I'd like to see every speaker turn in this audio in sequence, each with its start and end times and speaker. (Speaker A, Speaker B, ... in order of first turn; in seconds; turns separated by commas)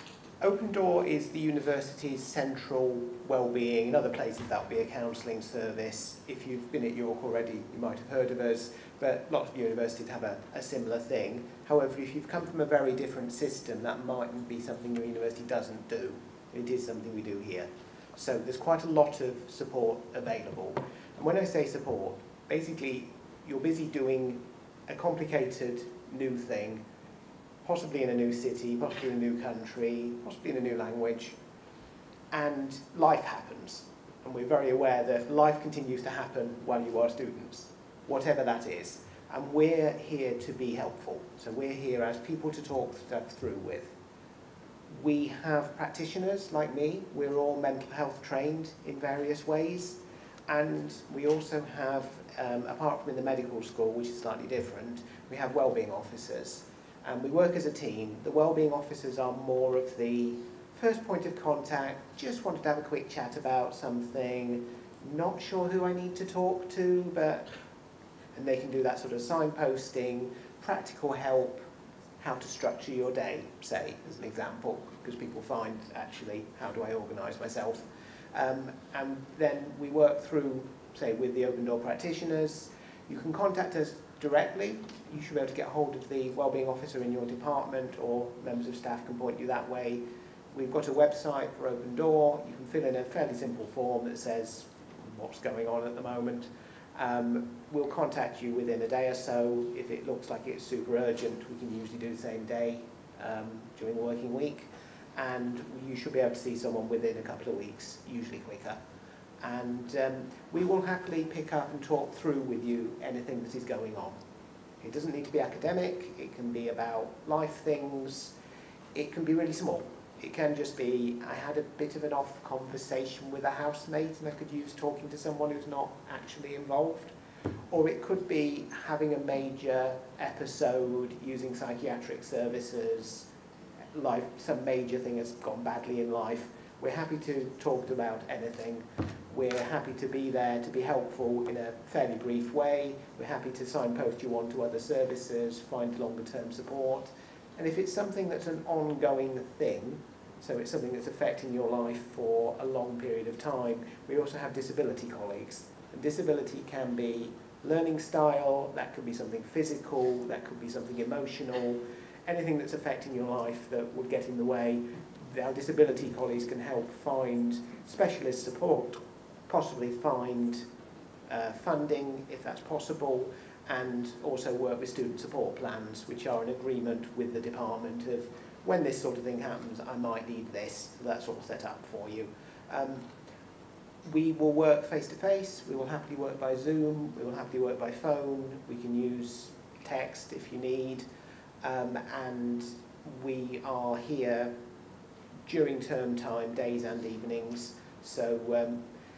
Speaker A: 0.4-26.8, Speaker A: 27.6-31.4, Speaker A: 32.3-43.9, Speaker A: 44.9-67.5, Speaker A: 68.3-71.6, Speaker A: 72.2-90.0, Speaker A: 90.5-108.8, Speaker A: 109.4-114.2, Speaker A: 114.8-118.3, Speaker A: 118.9-127.1, Speaker A: 127.7-133.3, Speaker A: 133.9-170.6, Speaker A: 171.3-183.0, Speaker A: 184.0-191.0, Speaker A: 191.6-194.5, Speaker A: 195.5-198.8